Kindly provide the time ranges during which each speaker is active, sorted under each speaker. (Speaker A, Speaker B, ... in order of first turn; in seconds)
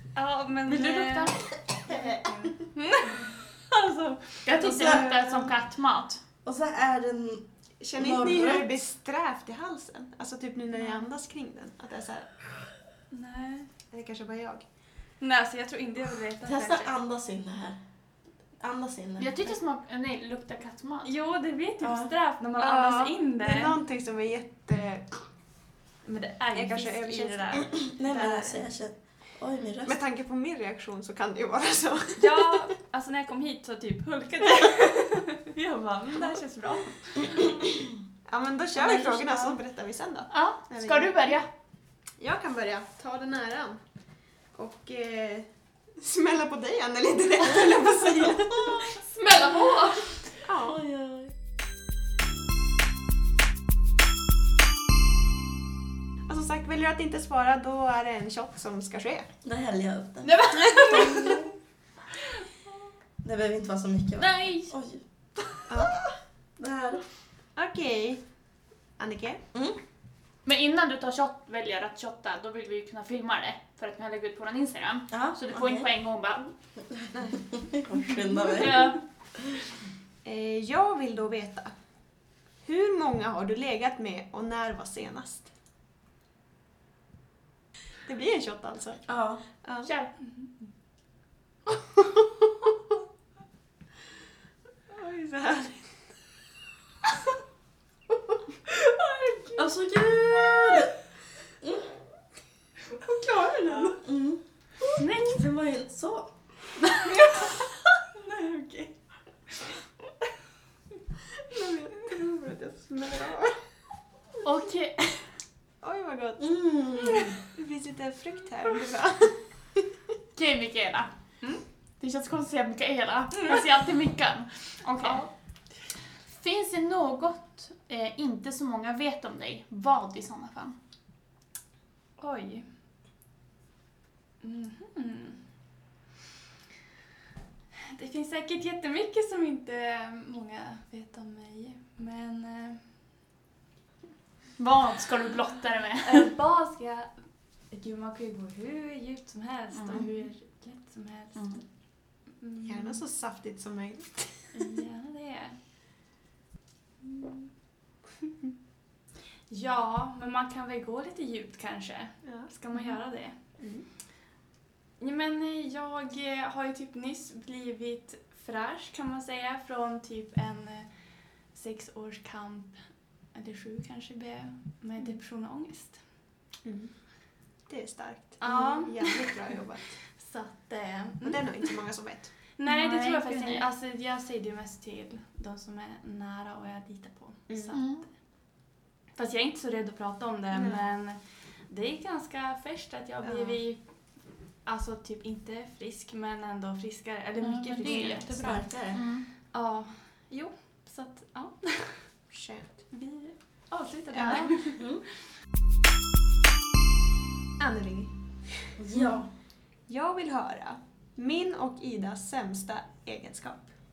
Speaker A: 0.1-4.5, 10.8-11.1, 13.1-13.7, 15.2-16.9, 21.0-23.8, 26.0-28.6, 32.2-37.5, 38.8-39.5, 49.1-50.1, 60.4-61.1, 90.2-90.5, 98.8-99.6, 107.1-107.5, 108.1-108.9, 123.4-123.6, 125.0-125.3, 132.2-132.7, 134.4-135.4, 137.9-142.9, 146.0-147.1, 147.7-151.6, 152.4-153.0, 154.5-155.6, 157.0-157.5, 159.5-163.4, 165.0-170.9, 171.5-172.8, 173.3-176.0, 178.4-179.3, 180.2-181.7, 182.6-188.0, 189.1-193.8, 194.6-198.7, 199.5-202.2, 202.9-204.8
Speaker B: 0.7-1.2, 4.4-6.2, 19.2-21.1, 40.3-41.5, 49.3-49.7, 60.5-61.1, 64.2-64.7, 70.4-76.5, 78.5-79.0, 89.8-90.1, 104.9-105.4, 114.4-115.3, 120.3-121.1, 122.0-125.2, 126.3-130.8, 144.6-146.3, 149.7-150.0, 151.3-151.6, 182.7-183.7, 187.7-188.0, 197.4-199.2, 204.2-204.5
Speaker C: 1.9-2.2, 4.6-5.0, 6.4-8.7, 16.4-17.8, 18.6-19.5, 21.8-22.1, 27.9-29.9, 50.6-51.3, 59.4-61.5, 63.2-65.0, 66.6-67.0, 69.5-69.8, 75.1-75.9, 76.9-78.9, 89.1-89.4, 99.5-100.9, 101.6-101.9, 103.9-106.3, 116.4-117.3, 198.3-199.0, 204.8-205.0, 208.8-209.3
Speaker D: 4.8-5.1, 7.8-12.3, 13.9-14.7, 22.6-25.2, 26.5-27.7, 29.9-32.5, 38.3-41.1, 42.2-43.8, 44.5-48.9, 50.4-50.8, 56.3-59.3, 65.7-66.0, 67.5-68.2, 69.0-69.4, 77.1-77.5, 80.2-81.7, 82.6-85.5, 88.0-89.0, 89.6-89.9, 94.9-96.0, 103.0-104.0, 111.5-113.6, 115.8-116.5, 117.5-119.4, 152.6-154.4, 163.6-163.8, 176.6-176.9, 177.7-179.9, 181.2-182.3, 187.5-187.8, 190.5-190.8, 193.2-193.6, 202.3-202.7, 204.1-204.7, 207.6-208.2, 209.9-213.7